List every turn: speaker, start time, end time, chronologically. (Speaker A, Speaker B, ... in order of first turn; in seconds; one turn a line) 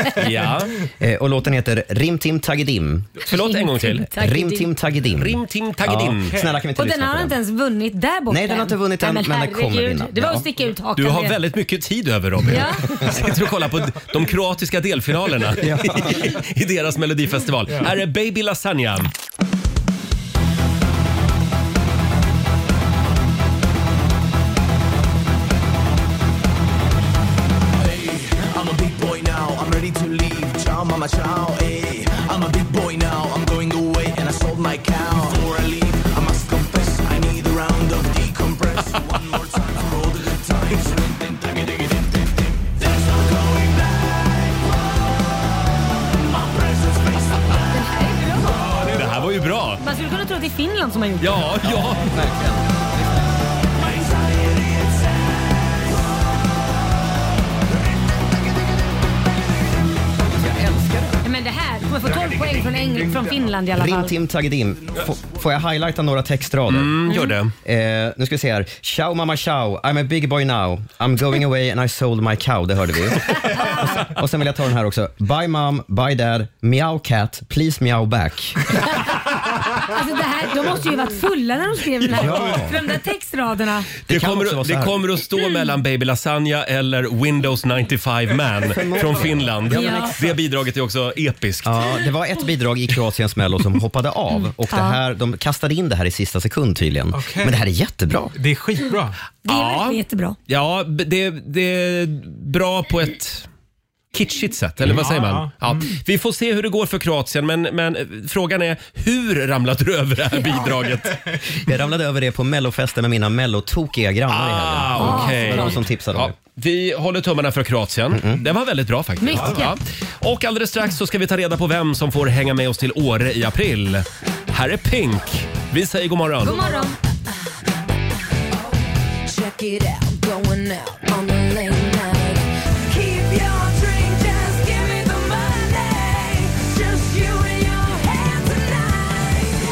Speaker A: 0.1-0.7
Speaker B: 0.8-3.1
Speaker A: 3.2-4.1
Speaker C: 3.3-4.7
Speaker B: 4.1-7.4
Speaker A: 5.1-6.4
Speaker D: 6.3-6.5
Speaker C: 6.7-11.4
Speaker B: 8.3-10.5
Speaker A: 10.9-19.1
Speaker C: 12.4-13.2
Speaker B: 15.6-16.2
Speaker E: 27.8-44.6
Speaker E: 46.3-47.8
Speaker C: 47.7-48.8
Speaker E: 48.5-48.8
Speaker A: 48.9-49.8
Speaker C: 49.8-51.6
Speaker A: 51.2-52.1
Speaker E: 53.9-54.8
Speaker C: 61.2-64.1
Speaker B: 63.7-67.0
Speaker A: 66.7-67.5
Speaker C: 67.1-67.3
Speaker B: 67.6-78.7
Speaker C: 79.8-83.9
Speaker B: 82.1-82.8
Speaker A: 82.2-82.5
Speaker B: 84.1-85.0
Speaker A: 84.1-91.9
Speaker B: 88.6-90.2
Speaker C: 89.7-90.1
Speaker B: 91.6-98.3
Speaker C: 94.3-95.0
Speaker D: 97.1-97.6
Speaker D: 98.3-99.2
Speaker C: 99.4-100.4
Speaker A: 99.5-103.5
Speaker A: 104.1-111.2
Speaker D: 104.9-105.9
Speaker B: 111.5-116.3
Speaker A: 114.3-126.6
Speaker C: 115.0-115.8
Speaker B: 118.1-118.4
Speaker C: 119.2-119.8
Speaker C: 126.4-127.0
Speaker F: 129.3-139.4
Speaker C: 130.4-131.1